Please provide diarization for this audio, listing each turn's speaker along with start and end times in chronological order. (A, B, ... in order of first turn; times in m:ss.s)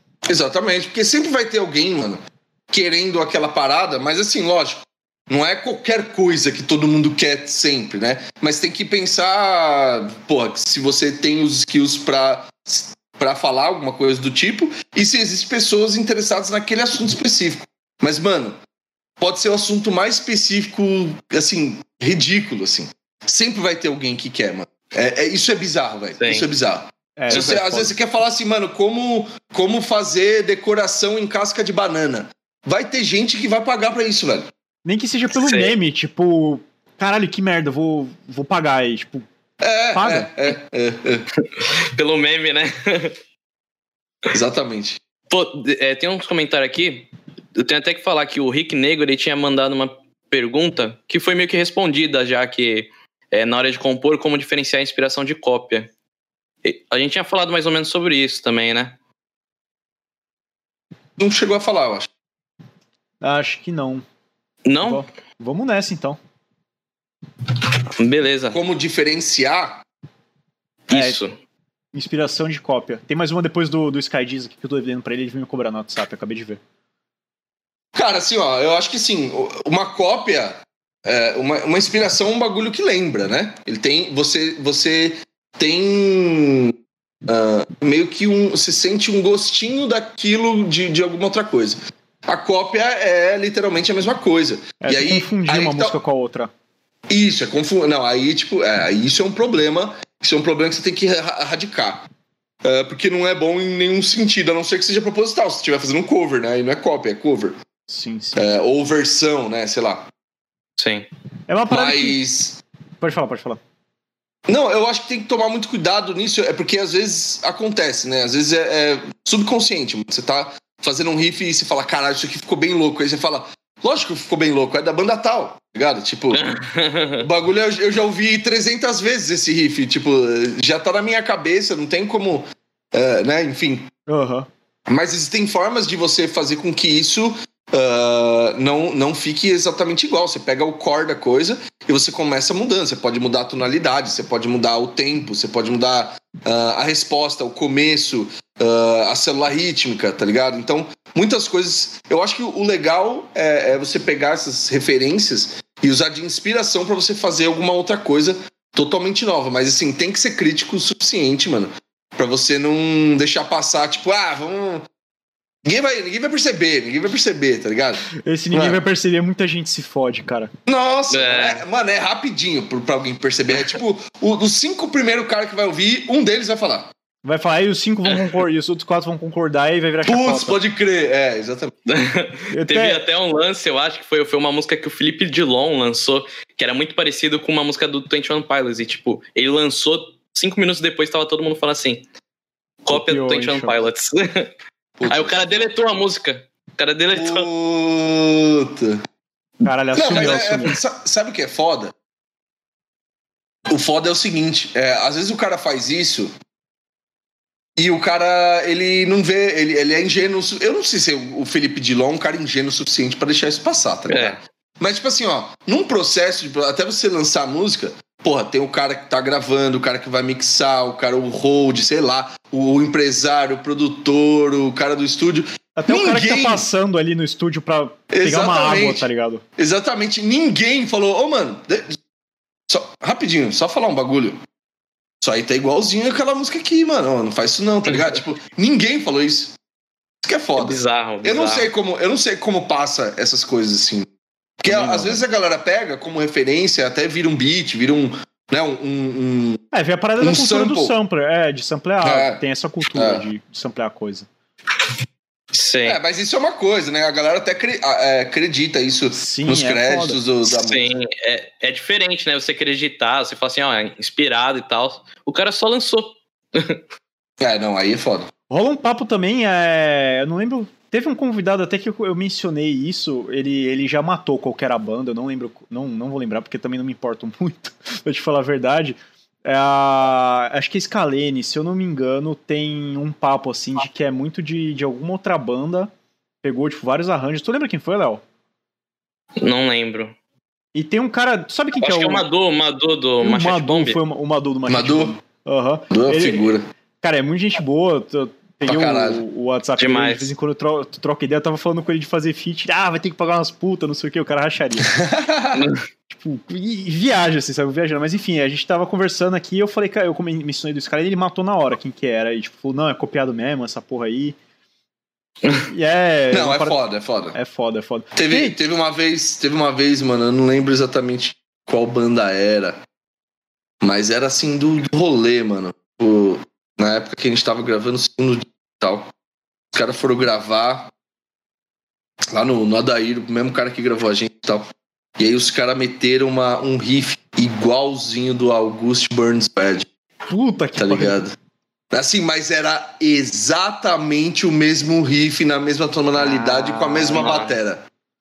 0:00.3-0:18.6 A
0:19.2-0:34.5 A
0:26.2-0:26.5 B
0:27.2-0:28.0 C
0:34.8-0:39.2 C
0:35.4-0:35.7 B
0:39.6-0:41.2 A
0:39.9-0:40.3 C
0:41.6-0:43.2 B
0:44.3-0:45.0 A
0:45.3-0:55.9 B
0:56.6-0:59.0 B
1:01.2-1:02.1 A
1:03.2-1:04.0 C
1:04.6-1:05.0 B
1:04.8-1:06.2 C
1:07.9-1:08.6 B
1:08.5-1:09.8 A
1:10.9-1:11.3 B
1:10.9-1:11.2 C
1:11.9-1:16.6 C
1:18.0-1:26.7 A
1:27.3-1:36.0 A
1:34.8-1:36.5 C
1:37.1-1:42.1 A
1:42.6-1:47.6 A
1:47.9-1:48.4 C
1:48.4-1:50.1 A
1:50.8-1:51.1 B
1:51.5-1:52.2 C
1:51.7-1:52.6 A
1:53.0-1:53.6 C
1:54.5-2:06.5 A
2:06.3-2:07.2 B
2:07.2-2:13.9 A
2:14.1-2:14.5 C
2:14.9-2:44.8 A
2:45.6-2:48.8 A
2:48.2-2:50.5 C
2:50.7-2:56.9 A
2:51.1-2:51.6 B
2:57.2-3:00.6 C
3:00.0-3:01.8 A
3:01.9-3:12.0 B
3:02.5-3:03.0 C
3:12.8-3:14.5 B
3:12.9-3:13.9 C
3:15.0-3:15.4 A
3:15.1-3:17.5 B
3:17.1-3:19.0 A
3:19.6-3:20.8 B
3:19.6-3:20.8 C
3:20.0-3:21.9 A
3:23.7-3:26.3 A
3:27.8-3:46.7 A
3:34.1-3:34.4 B
3:45.8-3:49.4 C
3:48.1-3:49.0 A
3:49.6-3:52.0 A
3:52.7-3:54.4 A
3:55.2-3:59.6 A
4:00.2-4:04.1 A
4:00.6-4:01.7 B
4:04.6-4:09.6 A
4:04.7-4:05.2 B
4:09.7-4:14.3 C
4:10.2-4:11.0 A
4:12.0-4:12.4 A
4:13.0-4:13.2 A
4:15.5-4:16.0 B
4:15.8-4:20.9 A
4:19.2-4:20.2 C
4:20.5-4:26.8 B
4:27.4-4:28.3 A
4:28.5-4:45.9 C
4:46.4-4:48.2 C
4:49.4-4:50.2 B
4:50.8-4:52.2 C
4:51.8-4:54.0 B
4:53.2-5:04.9 C
4:54.7-4:55.2 A
4:55.9-4:56.7 A
4:58.6-4:59.2 A
4:59.8-5:00.3 B
5:04.8-5:05.7 A
5:06.1-5:14.4 C
5:15.6-5:16.8 C
5:16.3-5:17.4 A
5:17.3-5:18.6 C
5:18.2-5:22.8 A
5:23.8-5:29.1 A
5:29.7-5:30.9 A
5:32.3-5:39.9 A
5:40.3-5:41.2 C
5:40.8-5:41.3 A
5:41.9-5:47.8 A
5:46.2-5:47.5 C